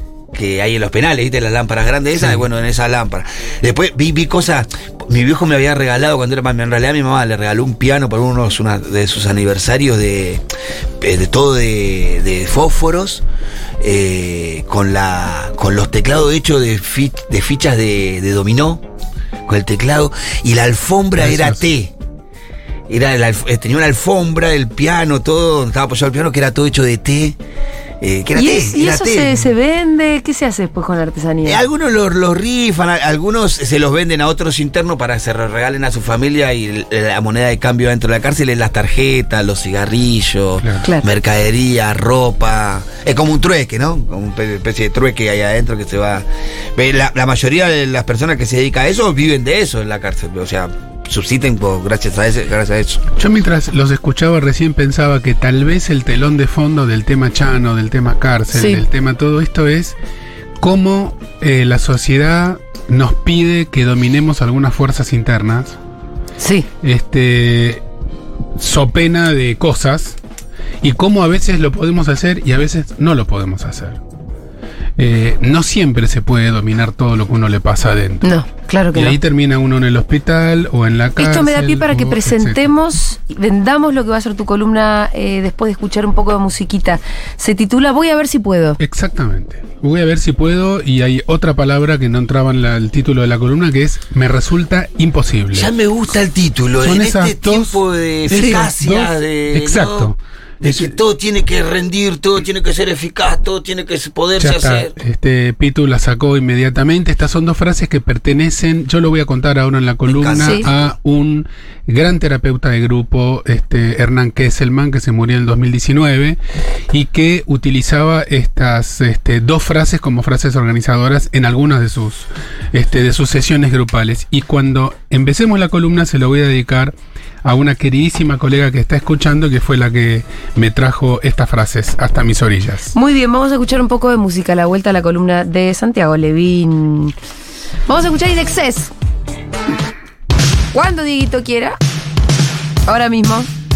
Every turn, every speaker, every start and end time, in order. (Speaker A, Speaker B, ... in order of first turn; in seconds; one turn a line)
Speaker A: 0.3-10.4
Speaker A: 11.0-13.2
Speaker A: 13.8-18.8
Speaker A: 19.5-21.9
Speaker B: 21.2-21.6
Speaker A: 22.9-27.4
Speaker A: 28.0-29.5
Speaker C: 28.4-31.6
Speaker A: 31.4-46.2
Speaker A: 46.8-53.0
Speaker B: 53.2-60.0
Speaker C: 58.5-58.8
Speaker B: 60.6-65.8
Speaker C: 66.4-66.7
Speaker B: 66.8-67.8
Speaker B: 68.6-70.2
Speaker B: 70.8-74.0
Speaker B: 75.0-78.3
Speaker C: 78.2-79.2
Speaker B: 78.9-82.7
Speaker C: 81.2-88.8
Speaker B: 88.8-95.7
Speaker A: 95.5-104.9
Speaker B: 96.8-101.0
Speaker C: 98.3-98.6
Speaker B: 104.4-116.4
Speaker A: 110.1-110.9
Speaker C: 110.4-110.7
Speaker B: 116.9-132.9
Speaker C: 132.9-137.1
Speaker C: 137.9-138.9
Speaker C: 140.7-141.8
Speaker C: 142.9-143.5